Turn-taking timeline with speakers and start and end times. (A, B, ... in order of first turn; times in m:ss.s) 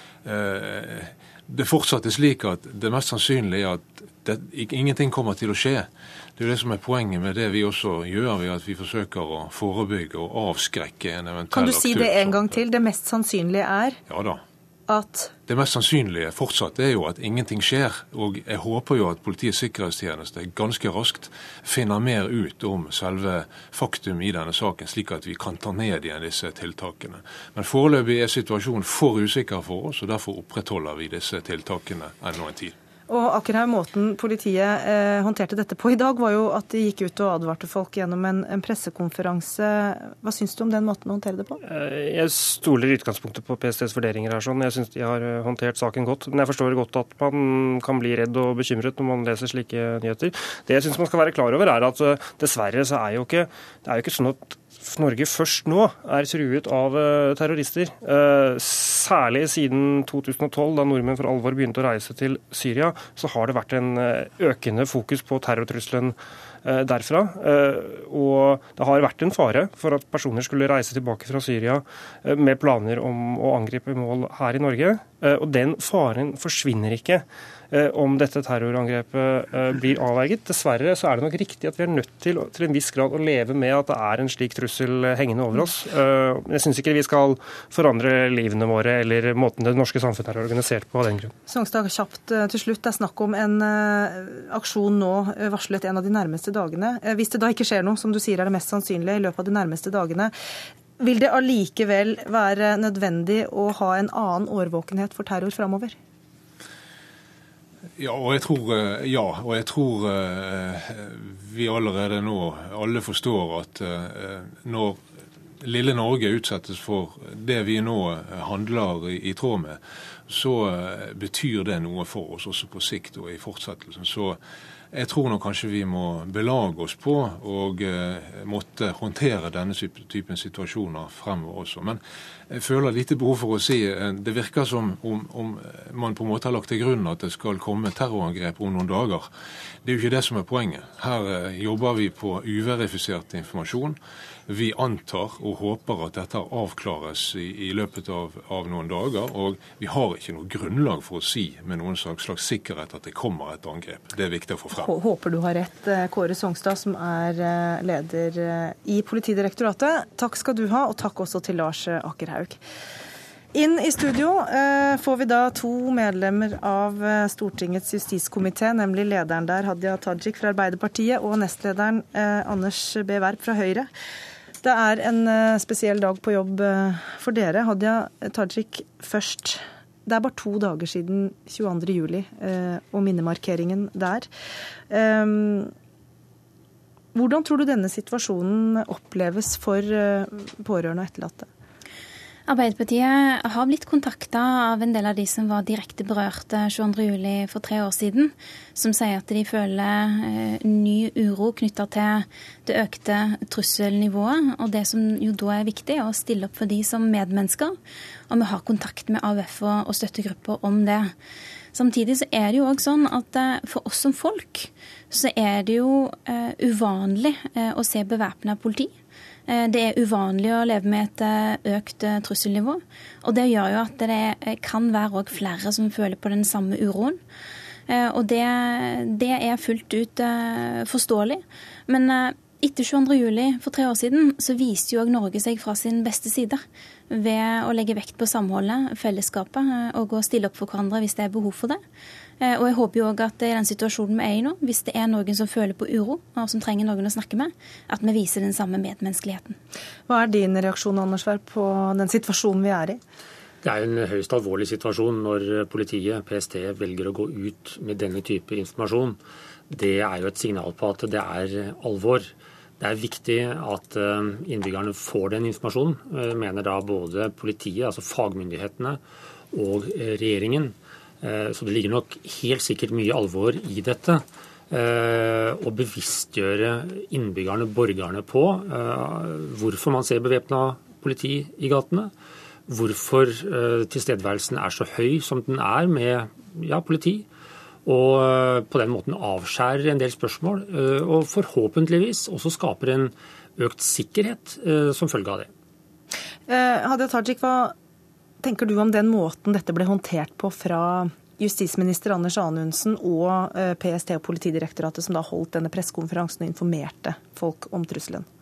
0:00.2-0:12.6 A
0:11.5-0:14.0 B
0:14.1-0:14.4 A
0:14.9-0:15.3 B
0:15.5-0:32.7 A
0:33.1-0:41.6 B
0:41.6-1:31.3 C
1:31.5-1:40.3 B
1:41.0-1:45.9 B
1:48.0-1:55.0 A
1:55.6-2:04.4 A
2:04.9-2:19.3 A
2:19.8-2:24.0 A
2:24.5-2:34.9 A
2:34.7-2:42.6 B
2:43.5-2:53.9 B
2:54.6-3:04.3 B
3:04.9-3:05.7 B
3:07.1-3:11.5 B
3:12.5-3:27.8 D
3:28.3-3:31.1 D
3:31.7-3:38.9 D
3:39.5-3:47.2 D
3:47.9-4:01.8 D
4:02.4-4:09.6 D
4:10.1-4:13.0 B
4:13.6-4:19.2 E
4:19.7-4:29.0 E
4:29.5-4:42.1 E
4:42.7-4:47.3 E
4:47.8-4:55.5 E
4:56.5-4:57.7 B
4:58.4-5:08.2 B